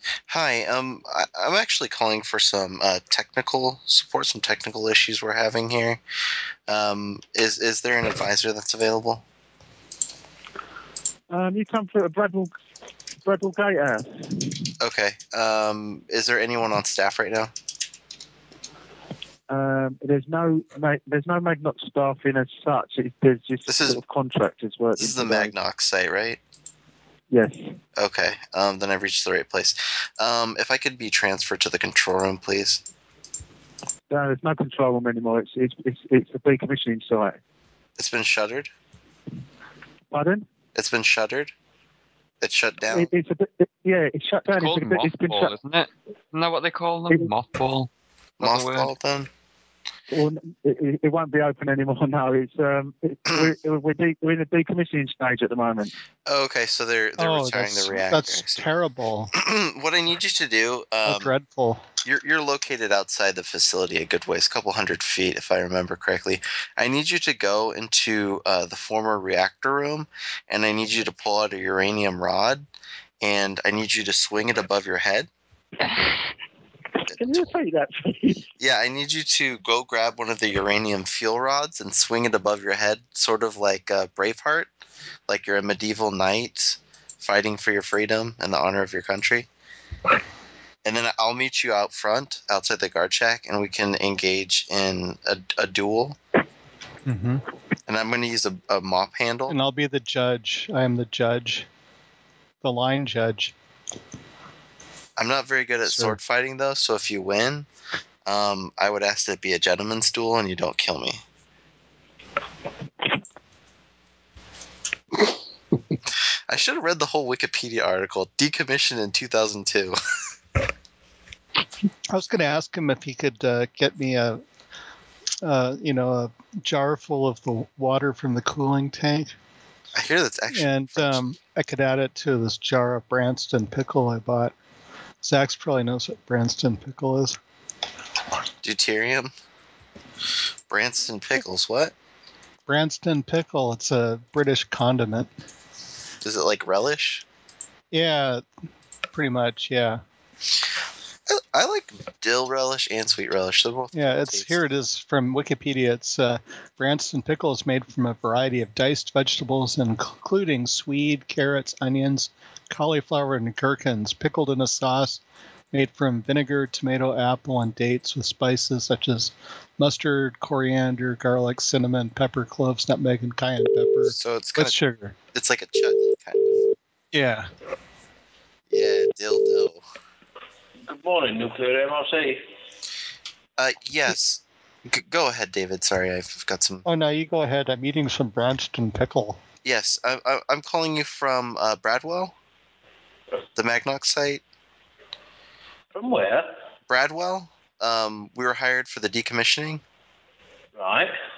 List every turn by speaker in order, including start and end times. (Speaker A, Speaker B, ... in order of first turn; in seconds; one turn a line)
Speaker A: 0.3-6.0
Speaker A: 6.7-9.2
Speaker B: 11.3-12.5
Speaker B: 13.2-14.4
Speaker A: 14.8-17.5
Speaker B: 19.5-25.5
Speaker A: 23.7-24.0
Speaker A: 25.0-26.4
Speaker B: 27.3-27.7
Speaker A: 28.0-32.8
Speaker B: 34.1-37.4
Speaker A: 38.0-38.7
Speaker B: 40.1-40.5
Speaker A: 40.8-41.5
Speaker A: 42.4-43.1
Speaker B: 42.9-45.5
Speaker C: 44.5-48.9
Speaker A: 48.4-49.3
Speaker B: 50.1-55.9
Speaker A: 56.3-58.7
Speaker D: 57.2-59.3
Speaker A: 59.4-61.3
Speaker D: 61.0-61.8
Speaker A: 62.0-72.7
Speaker A: 73.2-75.3
Speaker B: 77.1-78.5
Speaker A: 78.6-84.7
Speaker A: 85.3-89.5
Speaker A: 90.8-96.2
Speaker D: 97.0-97.4
Speaker A: 97.9-99.6
Speaker D: 99.5-101.7
Speaker D: 102.6-103.5
Speaker A: 105.2-107.7
Speaker D: 105.8-106.2
Speaker A: 108.3-111.2
Speaker A: 116.5-120.0
Speaker D: 122.1-124.4
Speaker D: 125.4-129.3
Speaker A: 129.9-131.2
Speaker D: 130.5-134.6
Speaker D: 135.2-137.4
Speaker A: 138.6-139.3
Speaker A: 140.7-141.9
Speaker D: 142.7-145.3
Speaker A: 146.2-147.2
Speaker D: 147.9-148.4
Speaker D: 149.1-150.0
Speaker A: 151.3-154.6
Speaker D: 153.9-175.2
Speaker A: 174.1-174.8
Speaker A: 175.3-176.7
Speaker D: 177.1-177.5
Speaker A: 178.7-179.8
Speaker E: 180.9-182.4
Speaker A: 183.6-186.8
Speaker D: 186.8-189.4
Speaker A: 189.6-192.3
Speaker A: 193.6-194.4
Speaker E: 195.9-196.5
Speaker A: 196.9-199.8
Speaker E: 200.8-201.1